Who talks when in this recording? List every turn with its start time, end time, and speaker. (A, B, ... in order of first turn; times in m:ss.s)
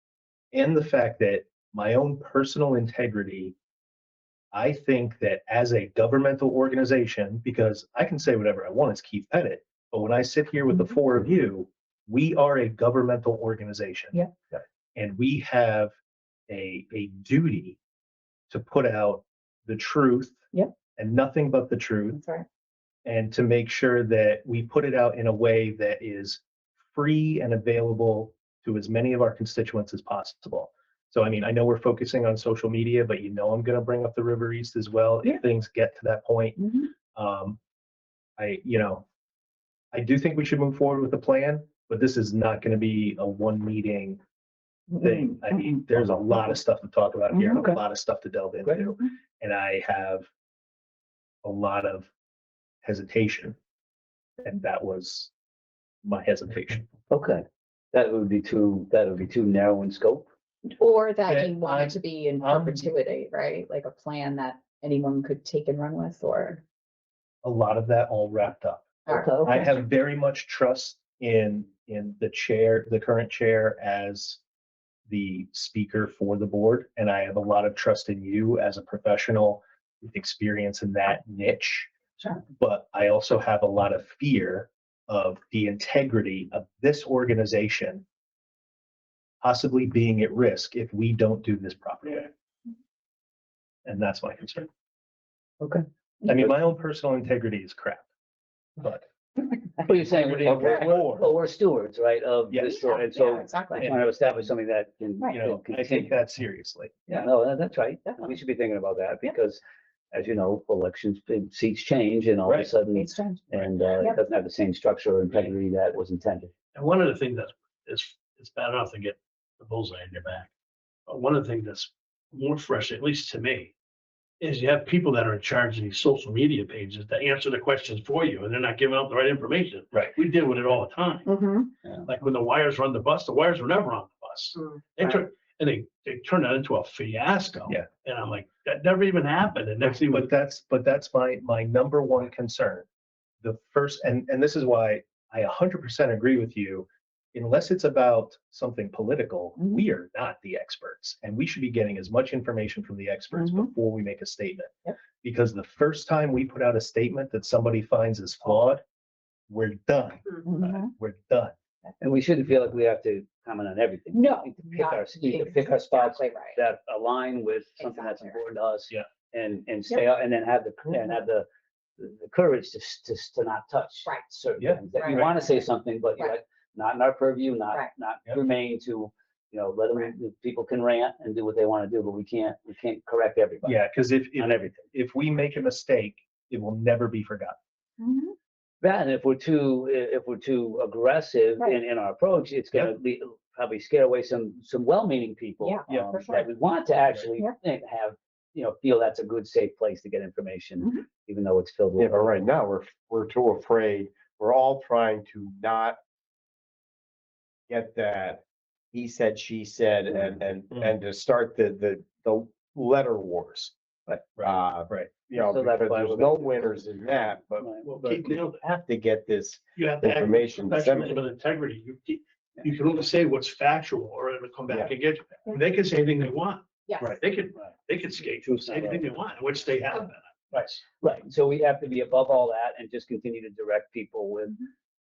0:00.5-0:03.6 A
0:04.5-0:14.2 A
0:15.0-0:15.9 A
0:16.5-0:17.8 A
0:18.5-0:22.2 A
0:22.1-0:22.5 B
0:23.0-0:37.6 A
0:36.6-0:36.9 B
0:38.4-0:39.1 A
0:39.9-0:44.2 A
0:45.0-0:50.3 A
0:45.9-0:46.2 C
0:47.3-0:47.8 C
0:51.4-0:52.1 A
0:52.8-0:53.6 A
0:54.4-0:55.3 A
0:56.0-0:56.8 A
0:57.1-1:00.3 C
1:00.7-1:06.6 B
1:01.3-1:02.9 A
1:07.4-1:14.4 A
1:09.1-1:09.8 B
1:09.1-1:09.8 C
1:15.1-1:21.9 A
1:22.5-1:28.0 A
1:29.4-1:32.3 A
1:33.8-1:34.7 A
1:35.6-1:36.5 C
1:36.2-1:38.1 A
1:38.8-1:39.1 A
1:39.8-1:46.2 C
1:39.8-1:41.3 A
1:40.5-1:40.7 D
1:42.5-1:42.8 A
1:42.8-1:43.9 B
1:43.8-1:44.1 A
1:45.3-1:47.0 A
1:47.1-1:49.6 C
1:48.1-1:48.3 B
1:50.1-1:56.5 C
1:52.5-1:52.7 A
1:52.9-1:54.2 B
1:56.7-2:00.5 D
2:01.1-2:03.7 D
2:04.4-2:11.3 D
2:11.3-2:11.7 B
2:12.0-2:20.3 D
2:14.6-2:15.2 B
2:20.1-2:22.9 A
2:23.4-2:38.8 A
2:33.4-2:33.7 B
2:39.5-2:41.5 A
2:40.4-2:40.9 B
2:42.0-2:51.5 C
2:44.1-2:46.6 B
2:47.8-2:48.4 B
2:52.0-3:04.8 C
2:54.0-2:54.3 B
2:55.0-2:55.7 B
3:03.6-3:07.6 A
3:08.0-3:08.4 B
3:08.8-3:22.4 C
3:15.6-3:16.5 B
3:22.0-3:26.0 E
3:27.7-3:41.2 E
3:34.4-3:35.1 A
3:35.3-3:36.8 C
3:37.6-3:37.9 C
3:37.8-3:38.7 D
3:39.8-3:50.8 D
3:44.7-3:44.9 E
3:46.9-3:47.2 B
3:48.5-3:49.1 C
3:50.5-3:54.6 C